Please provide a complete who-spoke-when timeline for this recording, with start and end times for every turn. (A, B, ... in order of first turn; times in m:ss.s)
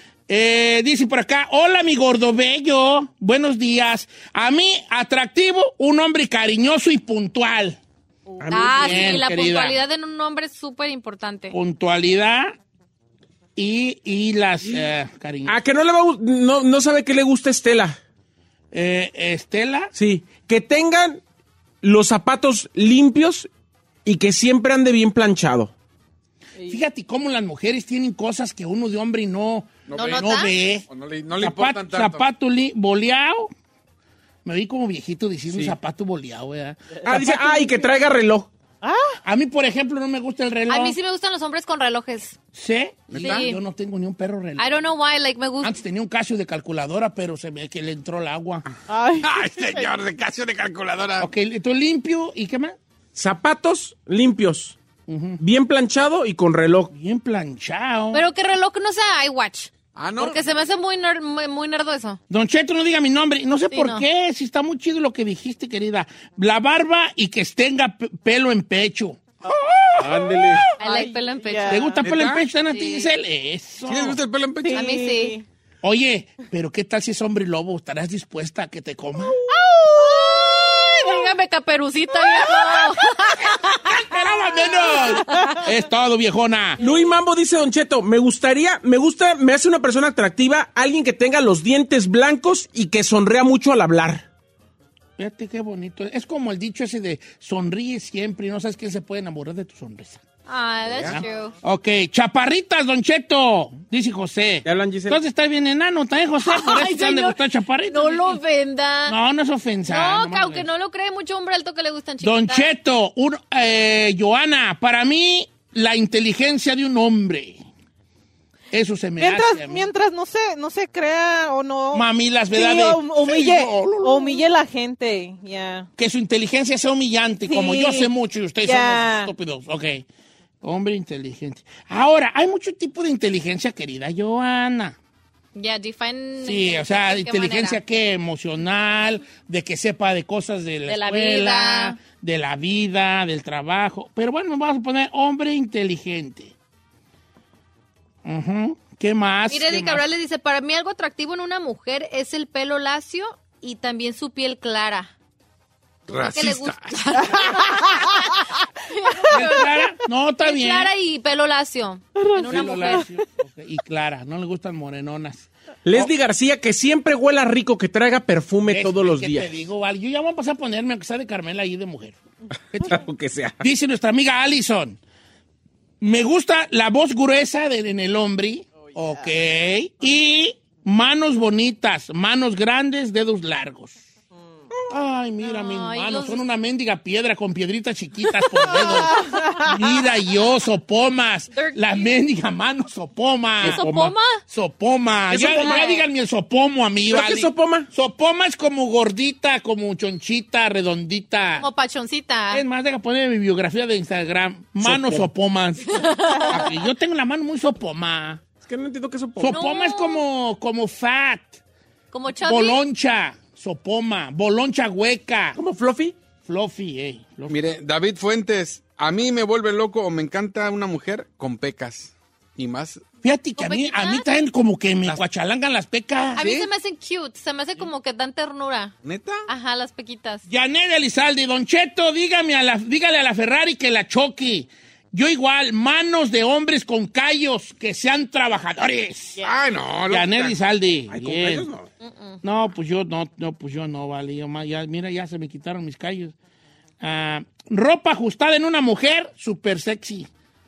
0:00.3-0:07.8 A
0:08.4-0:09.2 B
0:08.5-0:11.5 C
0:08.6-0:09.8 A
0:11.5-0:12.6 A
0:13.6-0:15.6 A
0:15.4-0:18.0 B
0:18.7-0:19.9 A
0:19.9-0:21.2 B
0:21.8-0:23.5 B
0:24.0-0:25.7 B
0:26.6-0:30.8 A
0:29.9-0:30.3 D
0:29.9-0:30.5 C
0:30.9-0:32.2 D
0:31.4-0:33.5 A
0:34.4-0:37.7 A
0:37.0-0:38.5 B
0:38.8-0:39.2 E
0:39.2-0:40.9 A
0:40.7-0:42.4 C
0:42.5-0:44.7 A
0:43.1-0:43.5 D
0:43.2-0:43.6 C
0:44.6-0:45.8 C
0:45.6-0:48.6 A
0:48.9-0:49.9 E
0:49.2-0:51.3 D
0:51.2-0:52.8 A
0:53.1-0:54.8 B
0:55.1-0:55.4 A
0:55.4-0:56.9 B
0:56.9-0:58.2 A
0:58.1-1:02.2 C
0:59.9-1:00.4 D
1:02.3-1:10.6 A
1:03.7-1:04.0 C
1:10.0-1:10.7 B
1:10.8-1:12.0 E
1:10.8-1:12.0 C
1:11.7-1:14.2 A
1:12.0-1:12.4 D
1:12.7-1:13.1 C
1:13.8-1:14.9 D
1:14.6-1:15.4 E
1:14.7-1:15.4 C
1:15.8-1:19.4 A
1:19.5-1:21.2 E
1:19.5-1:24.0 C
1:23.6-1:26.8 A
1:24.8-1:25.6 E
1:24.8-1:25.6 C
1:26.8-1:34.2 B
1:35.2-1:40.2 A
1:40.5-1:41.5 C
1:41.0-1:48.4 A
1:44.6-1:45.2 B
1:46.4-1:49.2 C
1:49.1-1:50.7 A
1:49.9-1:52.7 C
1:52.2-1:57.6 A
1:58.7-1:59.9 A
1:59.2-2:05.9 E
2:01.9-2:04.4 A
2:06.0-2:10.0 A
2:07.5-2:08.1 E
2:08.6-2:09.3 E
2:10.6-2:15.0 A
2:15.5-2:17.8 C
2:16.4-2:26.5 A
2:20.9-2:22.0 C
2:28.2-2:30.0 A
2:29.5-2:35.1 C
2:36.1-2:37.5 D
2:36.1-2:39.9 C
2:39.3-2:40.9 A
2:40.4-2:43.0 C
2:42.2-2:43.0 E
2:42.4-2:46.1 A
2:45.8-2:49.5 B
2:48.7-2:52.2 A
2:52.7-2:53.0 A
2:52.8-2:53.6 B
2:53.6-2:55.0 A
2:56.0-3:04.0 A
3:04.9-3:13.8 A
3:05.4-3:06.4 C
3:08.7-3:09.7 E
3:11.5-3:12.2 C
3:13.6-3:14.1 B
3:13.6-3:14.4 C
3:14.5-3:21.7 A
3:15.3-3:16.0 B
3:15.6-3:16.0 C
3:17.1-3:17.9 B
3:21.6-3:22.6 C
3:22.5-3:28.4 A
3:24.8-3:25.3 B
3:25.9-3:26.7 C
3:28.6-3:29.6 B
3:29.4-3:31.6 A
3:29.5-3:30.2 C
3:32.1-3:32.8 C
3:32.4-3:35.6 A
3:35.6-3:36.1 B
3:36.4-3:37.6 A
3:37.5-3:43.0 D
3:43.2-3:46.7 A
3:43.6-3:44.2 C
3:46.4-3:48.9 C
3:49.0-3:49.4 D
3:49.5-3:50.4 C
3:50.5-3:59.4 A
3:59.4-4:00.6 D
4:00.1-4:01.7 A
4:01.1-4:01.9 B
4:02.0-4:02.4 C
4:02.4-4:06.3 A
4:07.0-4:10.3 A